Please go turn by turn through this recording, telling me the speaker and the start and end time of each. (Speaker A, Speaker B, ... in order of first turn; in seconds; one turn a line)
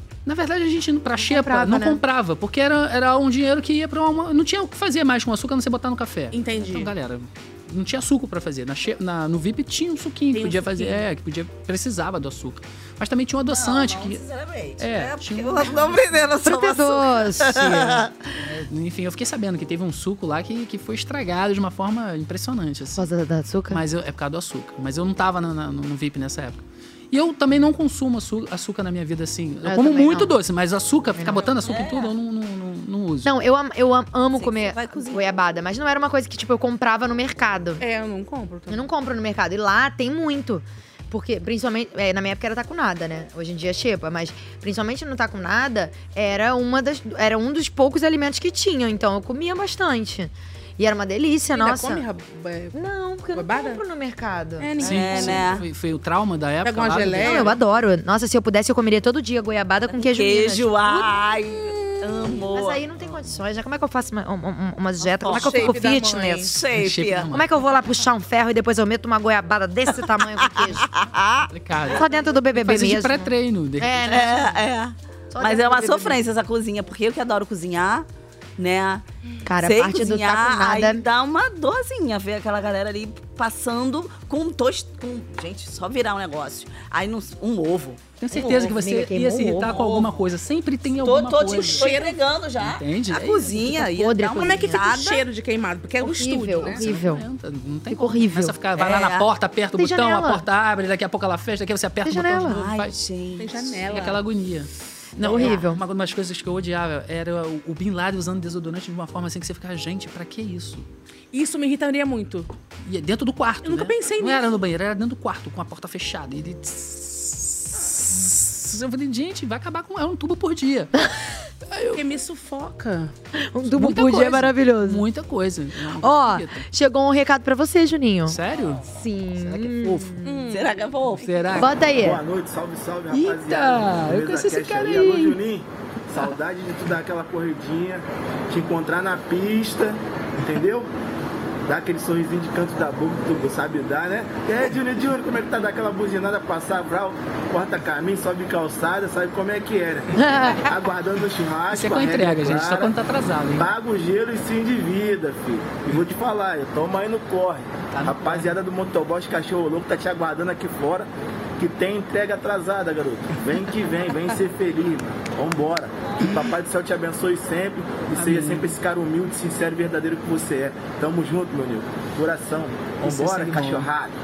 Speaker A: 0.3-14.2
Speaker B: 1.2-2.0
Speaker C: 6.3-6.9
Speaker C: 10.3-11.0
Speaker D: 13.5-18.1
Speaker A: 14.8-16.3
Speaker B: 16.4-18.1
Speaker A: 18.4-23.1
Speaker B: 23.0-23.8
Speaker A: 23.7-33.3
Speaker B: 29.6-30.4
Speaker B: 31.2-31.5
Speaker D: 31.6-32.1
Speaker B: 33.2-37.8
Speaker D: 34.3-35.4
Speaker C: 37.8-38.8
Speaker B: 38.7-52.0
Speaker C: 51.5-52.8
Speaker B: 52.7-55.3
Speaker C: 53.3-53.8
Speaker C: 54.6-55.4
Speaker D: 54.8-55.6
Speaker A: 54.8-57.5
Speaker C: 56.6-57.6
Speaker B: 57.2-61.1
Speaker D: 59.9-63.2
Speaker B: 62.5-66.5
Speaker D: 65.0-65.8
Speaker C: 65.3-66.4
Speaker D: 66.4-67.3
Speaker A: 66.8-67.5
Speaker B: 67.3-70.9
Speaker D: 70.0-71.5
Speaker A: 71.5-74.3
Speaker B: 71.9-74.6
Speaker D: 74.1-78.1
Speaker B: 75.3-76.2
Speaker D: 78.6-79.0
Speaker B: 79.5-81.0
Speaker D: 79.6-88.0
Speaker A: 88.2-91.9
Speaker B: 88.3-89.9
Speaker D: 89.7-90.0
Speaker D: 91.0-95.3
Speaker C: 91.6-92.2
Speaker A: 92.6-93.5
Speaker B: 93.5-94.8
Speaker C: 94.3-96.9
Speaker B: 96.0-97.2
Speaker A: 96.6-103.0
Speaker B: 97.9-98.6
Speaker D: 98.8-99.3
Speaker B: 99.8-100.5
Speaker B: 102.0-102.6
Speaker D: 102.5-104.0
Speaker C: 103.4-104.2
Speaker A: 103.9-110.8
Speaker B: 105.2-105.8
Speaker C: 111.3-112.5
Speaker A: 112.8-120.9
Speaker C: 113.6-114.6
Speaker A: 121.7-122.0
Speaker C: 122.0-123.1
Speaker B: 123.4-125.1
Speaker A: 123.7-126.7
Speaker B: 126.0-130.5
Speaker A: 128.3-128.8
Speaker A: 129.4-130.1
Speaker C: 130.2-130.7
Speaker D: 130.5-131.7
Speaker A: 131.2-131.8
Speaker B: 131.6-132.2
Speaker E: 132.0-140.9
Speaker A: 133.1-135.4
Speaker E: 141.7-152.9
Speaker B: 150.2-150.7
Speaker A: 151.7-153.7
Speaker E: 153.6-174.1
Speaker A: 157.9-158.6
Speaker A: 168.1-168.8
Speaker A: 173.0-173.9